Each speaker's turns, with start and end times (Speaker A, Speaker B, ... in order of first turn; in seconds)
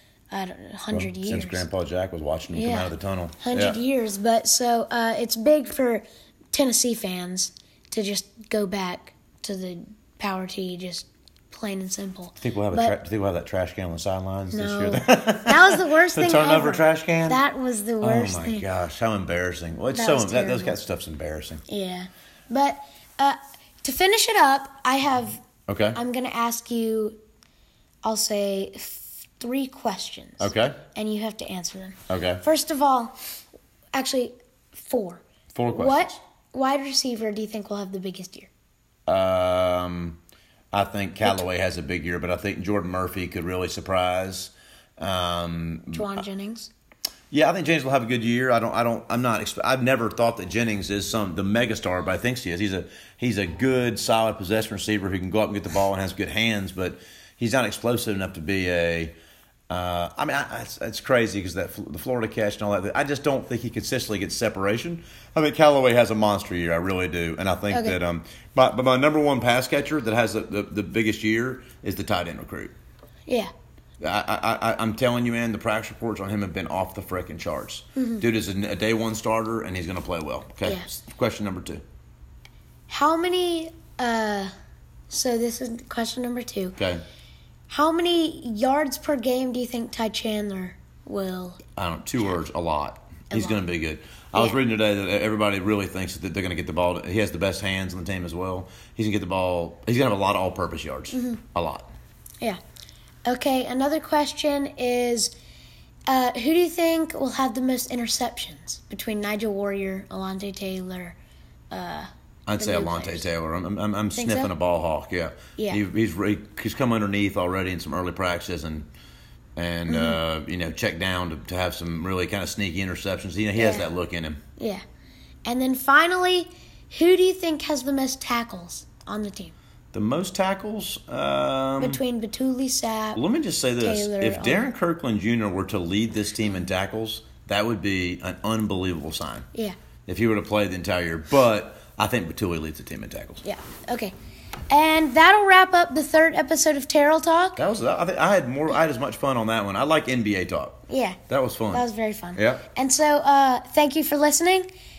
Speaker A: 0.3-1.6, 2.5-12.9, 14.5-18.6, 19.9-20.8, 21.7-27.1, 28.0-33.1, 33.9-38.5, 45.9-46.7, 67.7-68.0, 78.0-78.2, 82.9-84.5, 85.1-86.8, 87.7-91.6, 93.3-93.6, 101.1-101.4, 103.2-105.3, 106.1-111.2, 111.7-113.3, 114.2-114.5, 115.6-115.8, 119.9-120.2, 123.5-123.9, 124.6-124.8, 125.5-129.5, 131.8-133.2, 133.8-134.7, 143.4-144.1, 144.7-147.6, 150.9-151.2, 151.7-154.7
Speaker B: 0.9-3.8, 12.4-17.4, 18.0-21.6, 25.7-26.0, 30.4-30.8, 32.1-32.4, 35.5-36.1, 39.1-40.2, 40.7-46.2, 47.3-59.1, 59.7-72.7, 74.0-81.8, 86.8-87.0, 91.8-101.9, 112.5-118.9, 119.5-124.4, 129.9-132.0, 133.1-139.5, 140.1-143.4, 147.6-151.8, 152.3-152.6